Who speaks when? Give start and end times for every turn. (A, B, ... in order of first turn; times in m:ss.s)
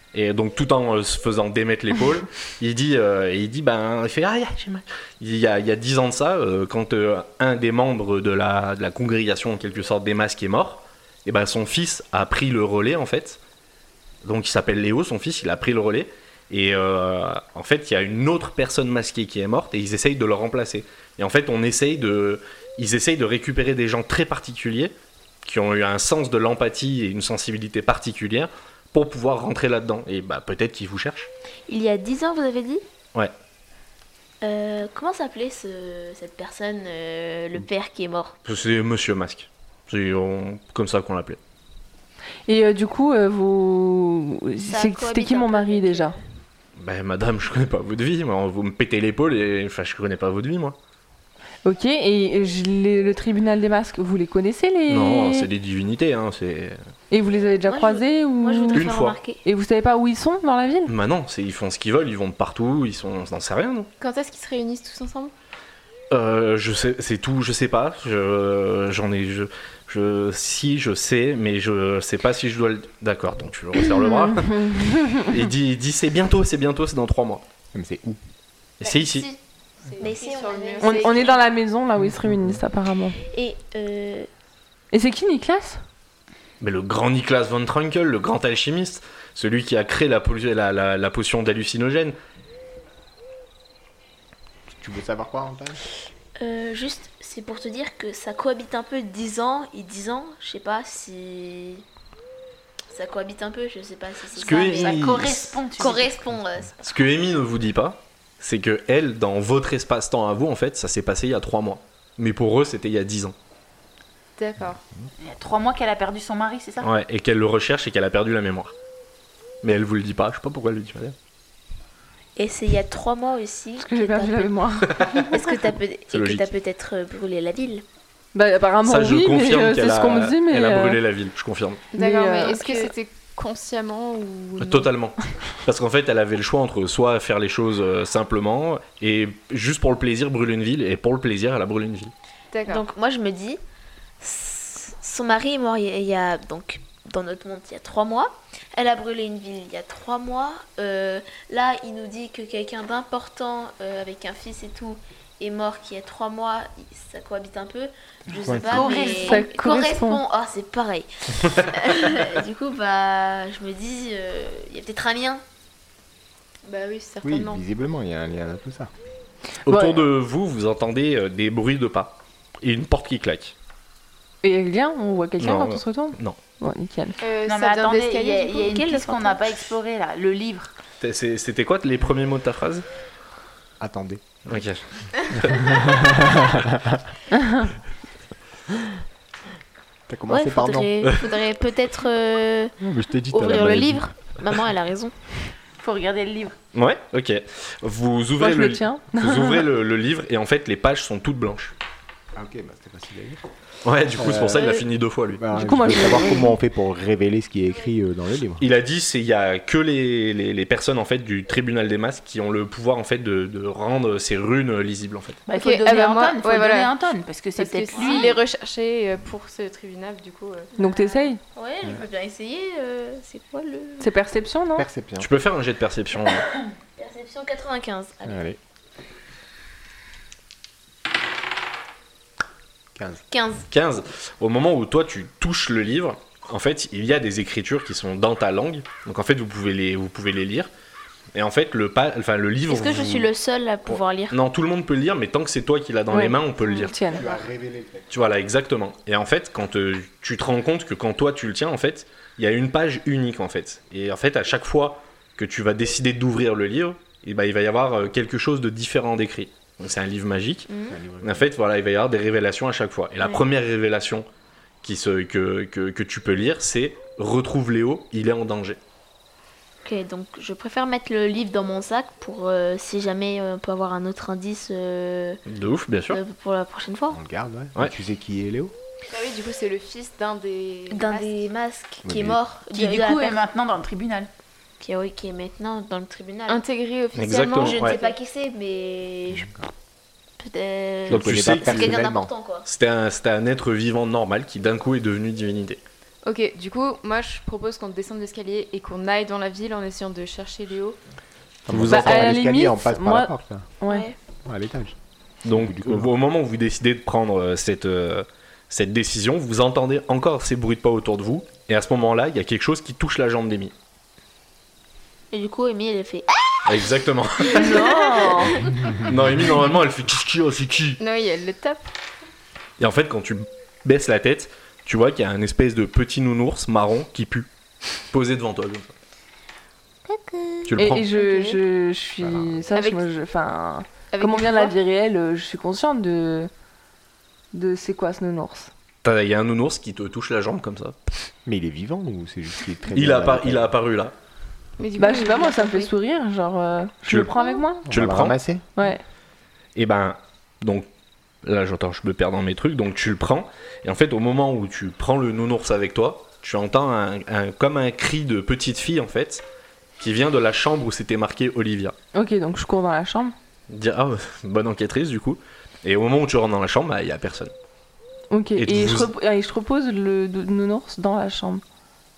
0:00.1-0:13.4 A
0:14.2-0:31.3 A
0:31.7-0:32.8 B
0:34.4-0:38.4 B
0:38.5-0:41.4 A
0:42.5-0:46.2 C
0:44.7-0:46.2 B
0:46.8-0:50.8 A
0:51.6-0:55.5 C
0:54.9-0:56.8 A
0:57.1-0:58.9 C
0:57.7-0:59.4 B
0:58.7-0:59.2 A
0:59.4-1:00.9 C
1:00.9-1:03.9 A
1:04.0-1:05.3 D
1:06.1-1:14.7 A
1:13.9-1:15.4 C
1:15.2-1:17.4 A
1:17.7-1:18.2 E
1:18.8-1:19.3 A
1:18.8-1:19.4 B
1:19.8-1:21.4 D
1:20.0-1:21.4 B
1:20.8-1:23.2 C
1:22.1-1:22.6 E
1:23.3-1:24.3 B
1:24.9-1:25.8 C
1:26.6-1:32.2 A
1:34.7-1:35.8 E
1:36.4-1:41.8 B
1:42.9-1:45.2 B
1:44.4-1:45.6 A
1:44.4-1:46.2 F
1:45.8-1:46.8 B
1:46.8-1:53.3 A
1:54.4-1:54.8 D
1:55.2-1:56.9 F
1:56.8-1:58.7 A
1:59.6-2:01.2 A
2:02.4-2:04.6 B
2:03.8-2:05.1 C
2:04.9-2:05.6 A
2:05.2-2:07.8 B
2:06.1-2:06.5 A
2:08.3-2:11.0 C
2:08.8-2:11.9 A
2:11.9-2:14.9 D
2:12.0-2:12.9 C
2:14.6-2:22.1 A
2:22.5-2:22.8 D
2:22.7-2:23.6 B
2:24.2-2:45.4 B
2:38.4-2:38.9 E
2:38.7-2:39.4 F
2:38.7-2:40.2 C
2:46.7-2:47.6 D
2:47.2-2:48.9 E
2:49.7-2:53.6 A
2:49.7-2:50.0 C
2:54.4-2:57.2 C
2:55.4-2:56.4 A
2:57.2-2:58.9 D
2:57.5-3:00.7 F
3:01.0-3:02.9 A
3:03.8-3:04.5 E
3:04.5-3:06.0 A
3:05.4-3:07.0 E
3:07.3-3:07.7 C
3:10.1-3:11.0 E
3:10.3-3:12.7 B
3:12.8-3:14.0 E
3:13.3-3:15.2 B
3:15.8-3:16.6 F
3:16.7-3:21.7 A
3:18.4-3:19.6 C
3:22.4-3:23.4 E
3:23.8-3:25.4 A
3:24.2-3:28.6 E
3:24.6-3:24.8 B
3:25.6-3:26.6 C
3:28.6-3:35.4 A
3:35.5-3:38.4 F
3:35.5-3:36.9 D
3:37.6-3:40.7 D
3:37.9-3:38.4 B
3:40.8-3:44.1 B
3:40.8-3:41.4 C
3:44.0-3:44.9 C
3:44.8-3:45.3 E
3:45.2-3:46.5 A
3:47.0-3:48.4 B
3:48.3-3:48.6 E
3:53.0-3:53.2 E
3:53.3-3:53.7 B
3:53.7-4:00.7 A
4:01.3-4:03.3 A
4:02.7-4:04.4 B
4:03.9-4:06.9 A
4:06.1-4:07.2 C
4:07.1-4:08.1 E
4:08.1-4:20.7 A
4:20.7-4:21.0 B
4:20.9-4:21.5 E
4:21.2-4:24.3 A
4:24.8-4:28.8 A
4:29.8-4:35.4 B
4:35.5-4:36.2 A
4:36.1-4:37.2 B
4:37.1-4:38.7 E
4:39.1-4:41.5 D
4:40.9-4:43.4 B
4:42.0-4:42.4 E
4:42.7-4:44.3 F
4:44.8-4:46.6 B
4:46.5-4:48.2 D
4:47.2-4:48.0 A
4:47.5-4:49.5 B
4:49.3-4:49.7 E
4:50.4-4:52.7 B
4:51.1-4:52.3 E
4:51.1-4:52.0 A
4:52.6-4:55.8 A
4:56.2-5:01.0 D
5:01.7-5:03.7 E
5:01.7-5:02.3 A
5:01.9-5:04.1 C
5:03.9-5:04.2 B
5:04.4-5:05.0 E
5:05.4-5:13.7 A
5:05.5-5:06.1 E
5:15.3-5:16.9 B
5:16.7-5:18.0 A
5:17.4-5:18.9 B
5:17.6-5:18.6 C
5:18.5-5:21.0 A
5:21.0-5:21.9 D
5:22.8-5:27.5 A
5:28.1-5:28.9 A
5:30.1-5:30.7 B
5:30.6-5:31.1 A
5:30.8-5:36.5 C
5:31.1-5:31.6 D
5:32.2-5:32.6 E
5:32.7-5:33.0 D
5:34.1-5:34.8 D
5:37.5-5:38.7 C
5:39.0-5:41.0 A
5:41.5-5:43.8 E
5:42.9-5:44.1 A
5:44.8-5:45.9 D
5:45.0-5:47.9 C
5:47.1-5:48.4 A
5:47.9-5:48.7 E
5:48.8-5:49.0 C
5:49.8-5:50.9 A
5:51.4-5:59.4 A
6:00.0-6:02.0 A
6:02.1-6:03.4 C
6:03.7-6:07.5 A
6:08.3-6:11.6 C
6:08.6-6:09.1 A